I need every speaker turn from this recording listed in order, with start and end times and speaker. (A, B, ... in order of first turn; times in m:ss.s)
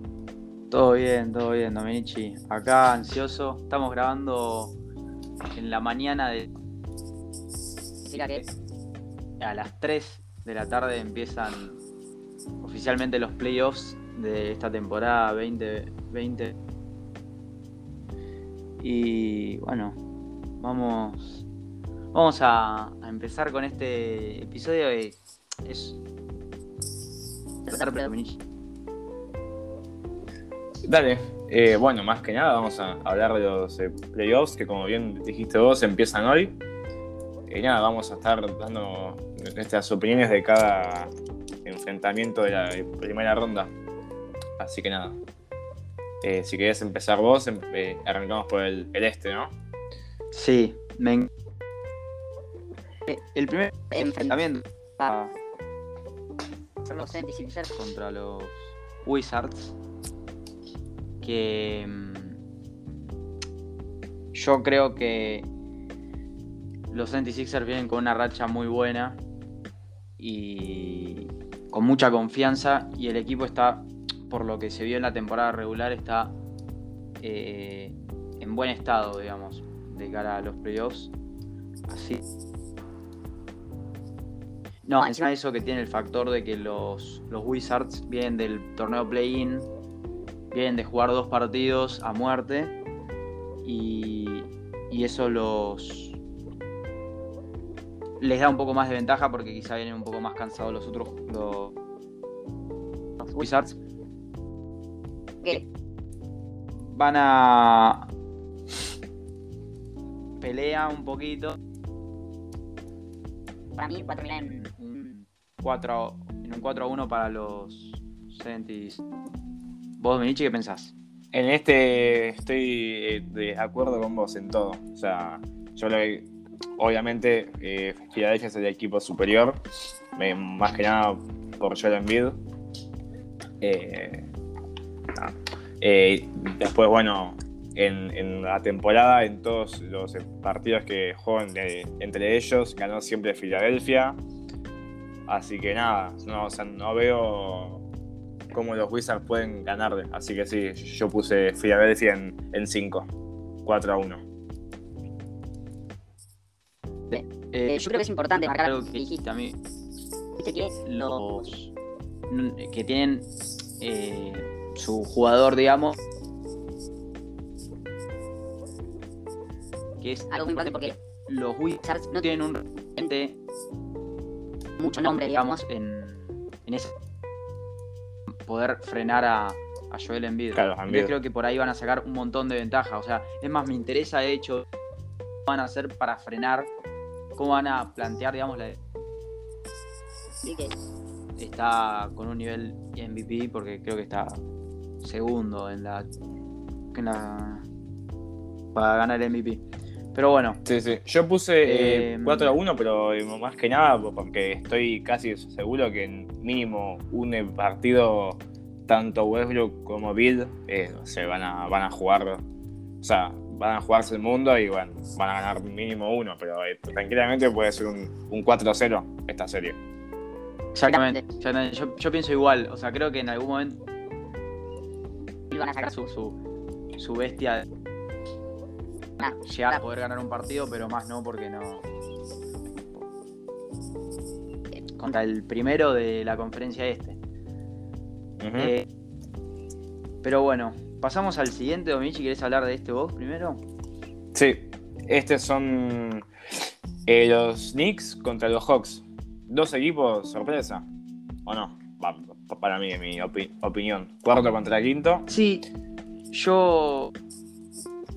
0:00.7-0:04.8 A
0:05.5-0:06.5 A
0:08.1-0:08.4 B
0:09.4-0:11.8 A
0:12.6-0:16.5 A
0:18.8-0:20.0 A
0:20.6-0:21.4 A
0:22.1-0:26.0 A
0:27.7-0:28.4 A
0:30.8-0:36.6 C
0:37.5-0:41.1 C
0:41.6-0:43.7 C
0:44.6-0:45.2 C
0:46.2-0:49.5 C
0:50.3-0:51.3 A
0:53.1-0:55.3 A
0:53.9-0:54.3 B
0:56.9-0:57.7 B
0:57.7-0:59.8 A
1:01.2-1:02.4 A
1:04.3-1:05.5 A
1:06.9-1:09.2 A
1:10.2-1:16.4 A
1:17.2-1:21.1 A
1:21.9-1:22.2 A
1:24.9-1:29.7 A
1:30.5-1:32.8 A
1:33.6-1:36.2 A
1:38.2-1:41.7 A
1:43.4-1:43.7 A
1:46.7-1:48.1 A
1:50.4-1:51.6 A
1:53.8-1:54.6 B
1:54.6-1:59.0 A
2:00.0-2:00.9 A
2:01.3-2:09.6 C
2:10.1-2:12.4 C
2:13.6-2:14.3 C
2:15.1-2:24.2 C
2:25.3-2:27.8 C
2:28.5-2:33.1 C
2:33.6-2:34.2 C
2:37.1-2:38.0 A
2:37.1-2:39.1 B
2:38.6-2:39.6 A
2:40.4-2:41.1 B
2:40.8-2:41.7 A
2:42.3-2:43.3 A
2:43.8-2:46.0 A
2:50.0-2:53.4 A
2:50.3-2:50.9 B
2:51.8-2:52.2 B
2:54.8-2:55.6 B
2:55.0-2:56.9 A
2:58.4-3:04.6 A
3:00.5-3:01.1 C
3:05.5-3:06.7 A
3:07.4-3:08.8 A
3:10.4-3:10.7 B
3:11.4-3:14.4 A
3:15.0-3:16.1 A
3:16.9-3:17.6 A
3:18.7-3:19.6 A
3:20.1-3:20.6 A
3:20.6-3:32.4 C
3:21.6-3:22.5 A
3:33.0-3:39.8 C
3:40.7-3:43.8 A
3:40.9-3:41.2 B
3:45.5-3:45.9 B
3:45.8-3:46.4 A
3:47.0-3:47.6 A
3:49.4-3:51.8 A
3:55.0-3:57.2 A
3:58.4-3:58.7 C
3:58.6-3:58.8 A
4:00.2-4:03.6 A
4:04.3-4:06.2 C
4:07.0-4:10.8 C
4:11.4-4:15.3 C
4:15.3-4:15.6 A
4:16.3-4:17.1 A